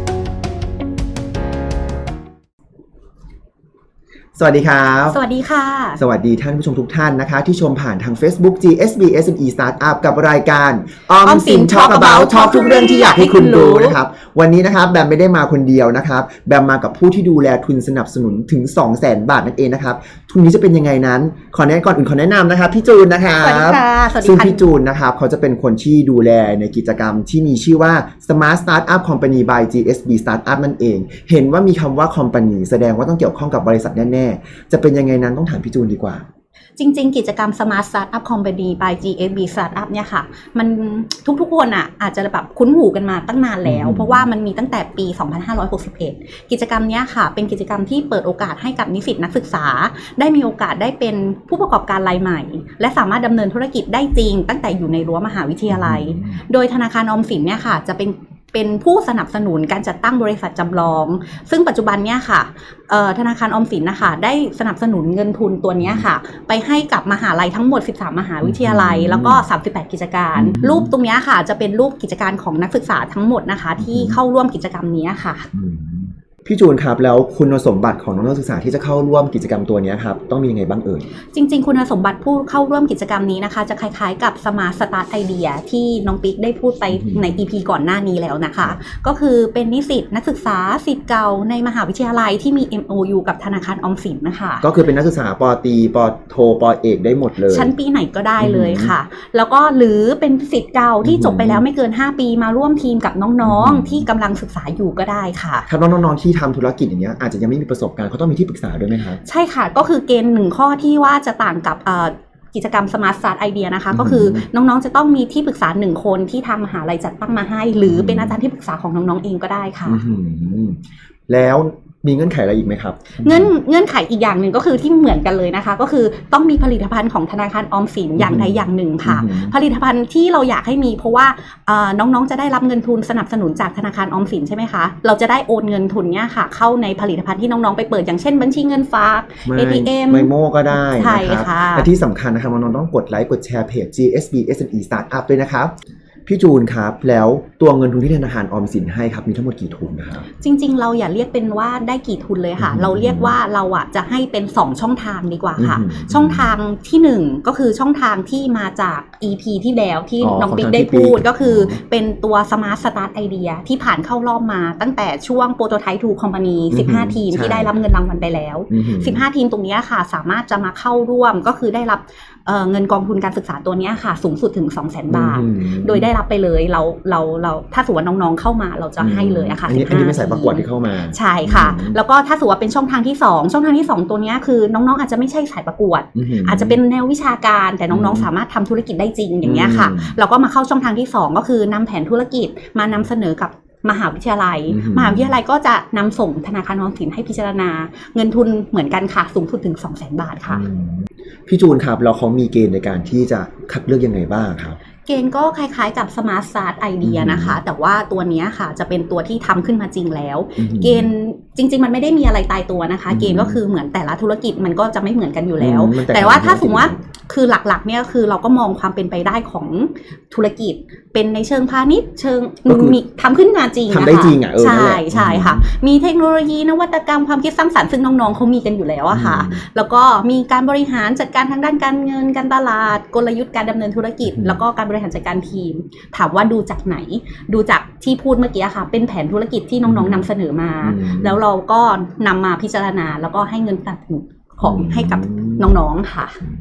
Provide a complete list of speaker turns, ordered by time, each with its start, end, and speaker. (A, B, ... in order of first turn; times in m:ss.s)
0:04.4-0:05.2 A
0:05.1-0:06.0 B
0:06.0-0:36.2 A
0:11.2-0:14.0 B
0:23.4-0:24.7 B
0:36.8-1:15.5 B
0:43.6-0:44.3 A
0:55.7-0:56.4 A
1:08.4-1:09.4 A
1:10.3-1:10.9 A
1:13.8-1:14.2 A
1:15.5-1:21.1 A
1:21.3-1:34.6 B
1:27.0-1:27.4 A
1:34.6-1:37.7 A
1:37.5-1:45.7 B
1:38.4-1:38.9 A
1:41.0-1:41.6 A
1:43.4-1:44.1 A
1:45.7-1:49.2 A
1:49.2-2:00.0 B
1:53.9-1:54.4 A
1:57.9-1:58.4 A
1:59.9-2:03.5 A
2:03.2-2:21.9 B
2:08.2-2:09.6 A
2:19.4-2:25.7 A
2:26.2-2:30.3 A
2:30.4-3:20.6 B
2:32.6-2:33.4 A
2:35.6-2:36.5 A
2:40.2-2:41.8 A
2:46.7-2:47.7 A
2:48.7-2:49.2 A
2:55.1-2:56.1 A
2:59.0-3:02.0 A
3:06.1-3:06.8 A
3:07.9-3:08.3 A
3:09.4-3:10.2 A
3:14.7-3:15.4 A
3:20.5-3:24.8 A
3:25.0-4:06.4 B
3:27.0-3:27.6 A
3:30.6-3:31.1 A
3:33.1-3:33.6 A
3:35.6-3:37.0 A
3:42.7-3:43.0 A
3:43.9-3:45.6 A
3:49.1-3:49.6 A
3:54.3-3:54.6 A
3:59.8-4:00.3 A
4:00.8-4:01.4 A
4:04.6-4:05.7 A